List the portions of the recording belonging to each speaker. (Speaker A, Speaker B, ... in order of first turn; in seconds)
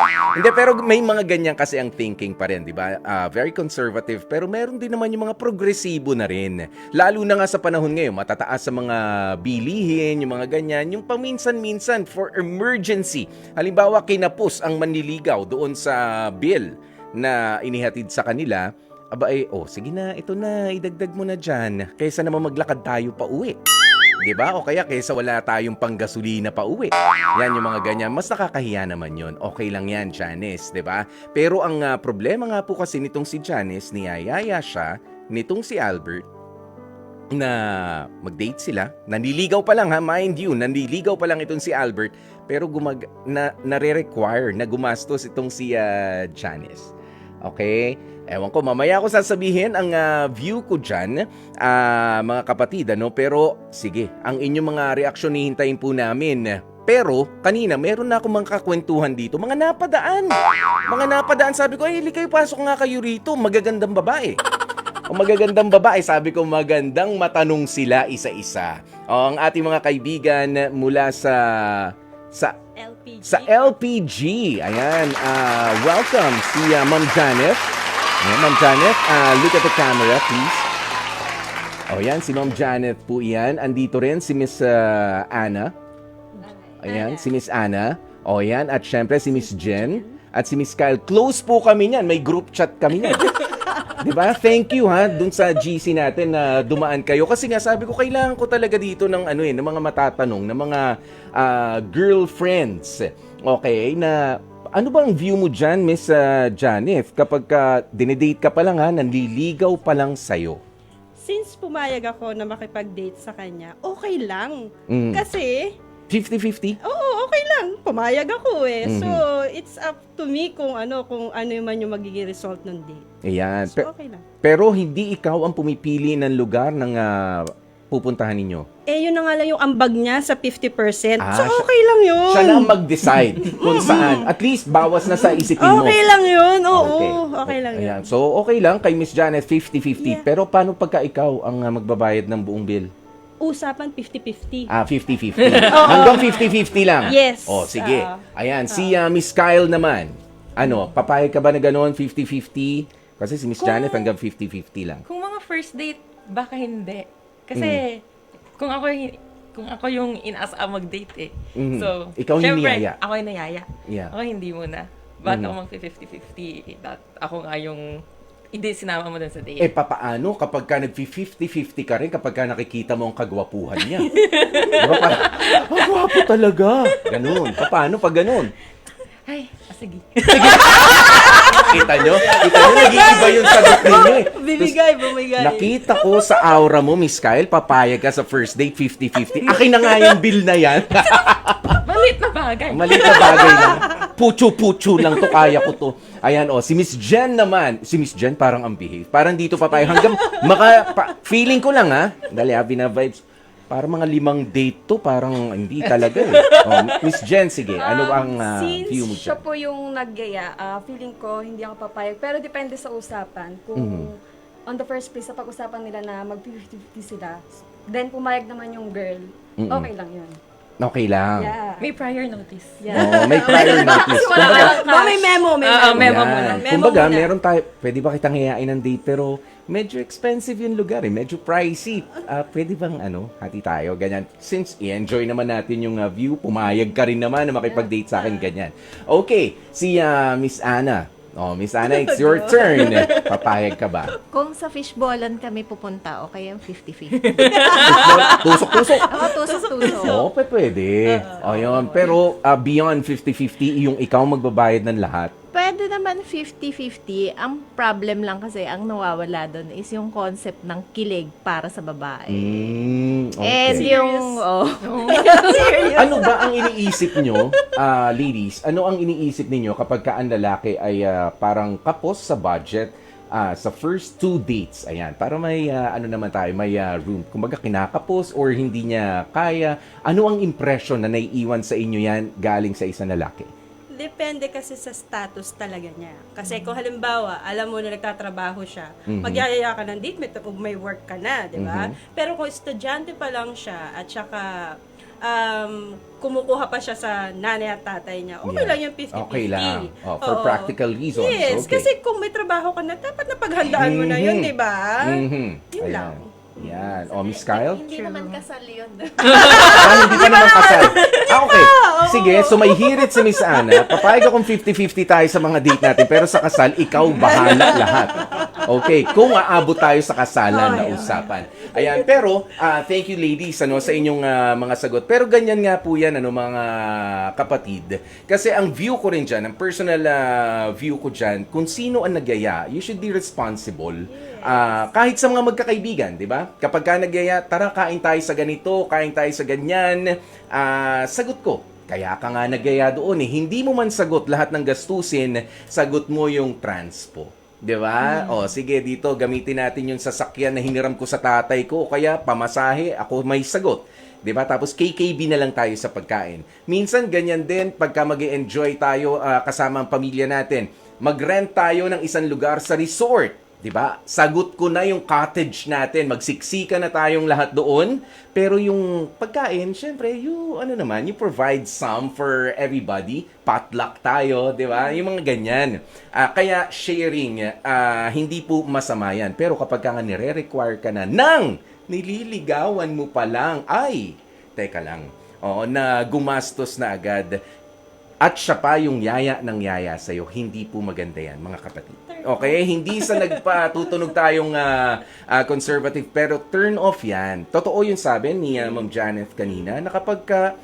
Speaker A: 0.3-23.6, 24.2-36.2, 37.3-46.9, 47.4-60.3, 60.9-64.4, 65.1-72.5, 73.2-80.7, 81.9-85.7, 86.8-100.8, 101.4-104.2, 104.8-110.6, 114.9-115.2, 116.1-116.8, 118.8-119.2, 123.2-123.8, 124.4-128.7, 131.2-131.6, 132.3-136.0, 136.7-142.9, 144.7-155.0, 157.5-157.8, 161.5-163.0, 163.8-164.1, 165.2-165.6, 169.6-174.1, 174.7-178.5, 180.3-184.8, 185.4-191.8, 192.7-209.4, 213.8-214.1, 219.6-219.9, 220.8-221.5, 222.9-224.8, 225.9-244.1, 247.7-249.3, 249.9-255.3, 262.3-263.9, 265.9-283.5, 289.1-289.4, 291.6-291.9, 298.4-301.9, 303.7-304.5, 305.0-307.8, 309.7-387.4, 388.2-400.4
Speaker B: 72.8-73.7, 86.9-87.2, 89.6-90.1, 111.2-115.7, 116.8-123.0, 123.7-124.2, 128.9-132.7, 133.3-134.3, 135.0-138.1, 143.4-144.7, 145.7-146.4, 147.1-148.9, 181.1-186.4, 222.9-227.3, 241.8-243.6, 247.5-248.4, 249.1-250.3, 251.1-252.1, 263.6-264.4, 265.1-267.4, 283.9-306.9, 307.9-308.4, 309.4-314.1, 317.2-318.5, 320.5-322.0, 334.1-334.9, 392.2-392.5
Speaker C: 145.5-146.2, 155.1-158.0, 158.6-167.8, 168.5-169.7, 174.0-175.7, 179.3-183.7, 191.8-193.8, 206.0-206.9, 221.8-222.8, 224.2-224.8, 225.6-226.8, 247.2-248.2, 264.8-265.2, 309.3-310.0
Speaker D: 207.8-220.4, 221.4-221.9, 222.8-226.4
Speaker E: 244.3-247.7, 248.3-250.3, 255.5-262.9, 263.4-266.3, 306.8-310.2, 348.0-348.3